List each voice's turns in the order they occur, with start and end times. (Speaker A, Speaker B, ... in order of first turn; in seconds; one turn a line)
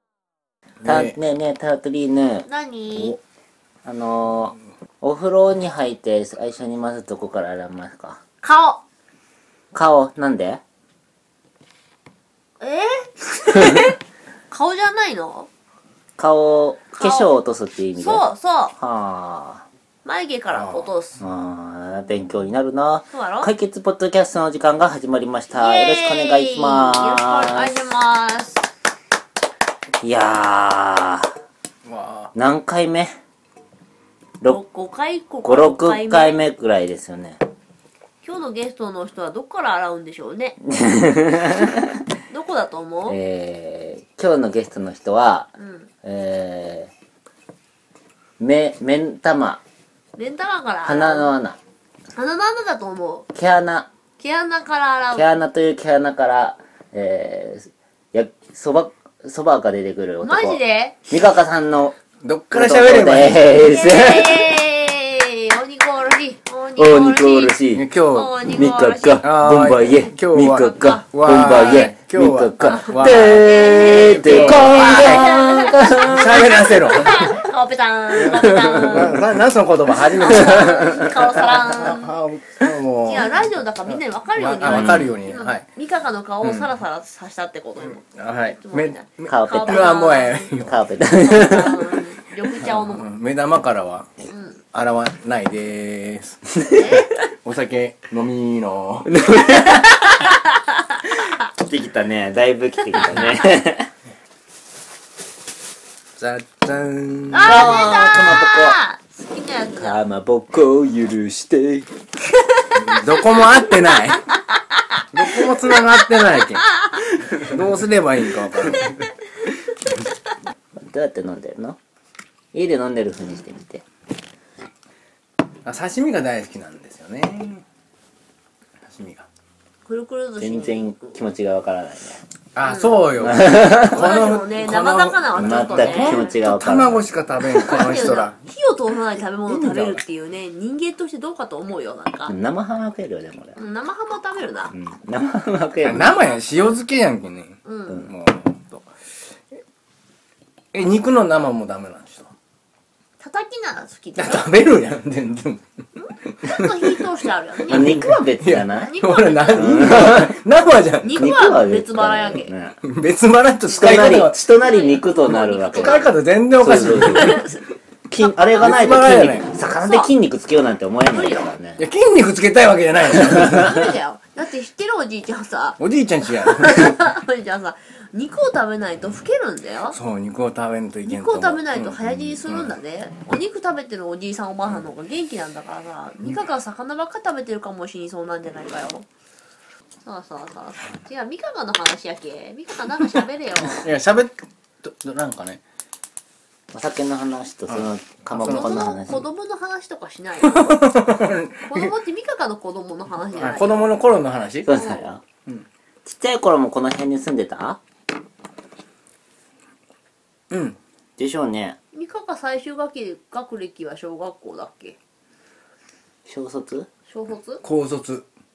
Speaker A: 0.8-1.2
Speaker B: 0.8-3.1
Speaker C: 2.5-3.2
Speaker B: 3.9-8.2
Speaker C: 8.4-8.8
Speaker B: 9.7-10.6
Speaker C: 12.6-13.9
Speaker C: 14.5-15.5
Speaker B: 16.2-18.2
Speaker C: 17.0-17.3
Speaker C: 18.0-18.8
Speaker B: 18.8-19.6
Speaker C: 20.0-21.2
Speaker A: 20.5-20.9
Speaker B: 21.2-27.8
Speaker C: 23.1-23.5
Speaker C: 25.6-28.7
Speaker B: 30.0-31.3
Speaker A: 31.9-32.3
Speaker B: 32.4-33.1
Speaker C: 34.5-36.4
Speaker B: 35.4-37.4
Speaker C: 38.2-40.6
Speaker B: 40.7-41.9
Speaker C: 42.3-43.2
Speaker B: 43.1-45.5
Speaker C: 45.6-45.9
Speaker B: 46.0-46.9
Speaker B: 48.4-49.6
Speaker C: 50.2-51.3
Speaker B: 50.9-51.6
Speaker C: 52.1-53.3
Speaker B: 53.3-53.9
Speaker C: 54.2-55.3
Speaker B: 55.1-62.0
Speaker C: 60.2-61.0
Speaker A: 62.2-63.5
Speaker B: 62.5-64.6
Speaker C: 63.6-67.6
Speaker B: 66.8-67.8
Speaker A: 67.7-68.4
Speaker C: 68.1-69.3
Speaker B: 68.5-76.6
Speaker A: 69.2-75.0
Speaker C: 70.5-71.9
Speaker C: 72.6-79.3
Speaker A: 76.0-77.3
Speaker A: 78.2-85.7
Speaker B: 78.8-79.1
Speaker C: 79.9-82.1
Speaker B: 80.2-81.6
Speaker C: 83.0-93.1
Speaker B: 84.7-85.1
Speaker A: 86.4-86.7
Speaker A: 87.8-90.8
Speaker B: 89.3-90.0
Speaker B: 90.6-92.0
Speaker A: 92.8-94.1
Speaker C: 94.3-94.6
Speaker A: 94.7-96.6
Speaker C: 96.7-97.1
Speaker A: 97.4-99.2
Speaker B: 99.1-100.4
Speaker B: 101.3-103.9
Speaker C: 103.0-103.5
Speaker A: 106.2-108.0
Speaker C: 107.3-110.0
Speaker B: 107.4-108.8
Speaker B: 109.7-111.9
Speaker C: 112.5-116.9
Speaker A: 112.7-114.2
Speaker A: 115.1-116.7
Speaker A: 117.3-119.0
Speaker C: 118.5-119.5
Speaker B: 120.8-121.8
Speaker B: 122.5-123.8
Speaker A: 125.7-127.6
Speaker A: 128.9-129.3
Speaker C: 129.8-130.9
Speaker B: 130.4-132.2
Speaker A: 132.6-138.4
Speaker C: 132.6-136.3
Speaker B: 133.2-134.2
Speaker B: 135.3-137.0
Speaker C: 137.6-142.4
Speaker B: 137.6-138.0
Speaker B: 139.5-140.0
Speaker B: 142.3-143.6
Speaker C: 143.6-144.7
Speaker B: 144.7-146.1
Speaker A: 145.8-148.9
Speaker C: 147.7-148.1
Speaker A: 150.7-152.3
Speaker C: 153.2-154.5
Speaker A: 154.2-155.6
Speaker C: 156.0-158.1
Speaker A: 156.4-156.8
Speaker A: 157.7-161.3
Speaker B: 157.7-160.4
Speaker C: 158.8-159.9
Speaker C: 161.0-162.5
Speaker B: 161.2-162.8
Speaker A: 162.8-164.4
Speaker C: 163.7-166.1
Speaker B: 163.7-167.4
Speaker A: 165.7-167.6
Speaker C: 166.9-167.6
Speaker B: 168.1-171.8
Speaker A: 168.5-169.5
Speaker C: 169.7-170.1
Speaker C: 171.1-171.5
Speaker A: 171.8-173.8
Speaker C: 173.3-180.0
Speaker A: 175.8-177.0
Speaker A: 179.9-182.8
Speaker C: 181.1-189.1
Speaker C: 190.0-193.9
Speaker A: 193.8-195.6
Speaker B: 196.7-199.2
Speaker A: 197.7-198.9
Speaker C: 198.4-203.9
Speaker A: 200.5-201.9
Speaker A: 203.3-204.7
Speaker B: 204.7-205.2
Speaker C: 204.7-205.1
Speaker B: 206.1-207.8
Speaker A: 210.5-210.8
Speaker B: 211.2-211.8
Speaker C: 211.9-215.0
Speaker B: 216.3-216.9
Speaker C: 217.1-217.6
Speaker A: 217.6-218.3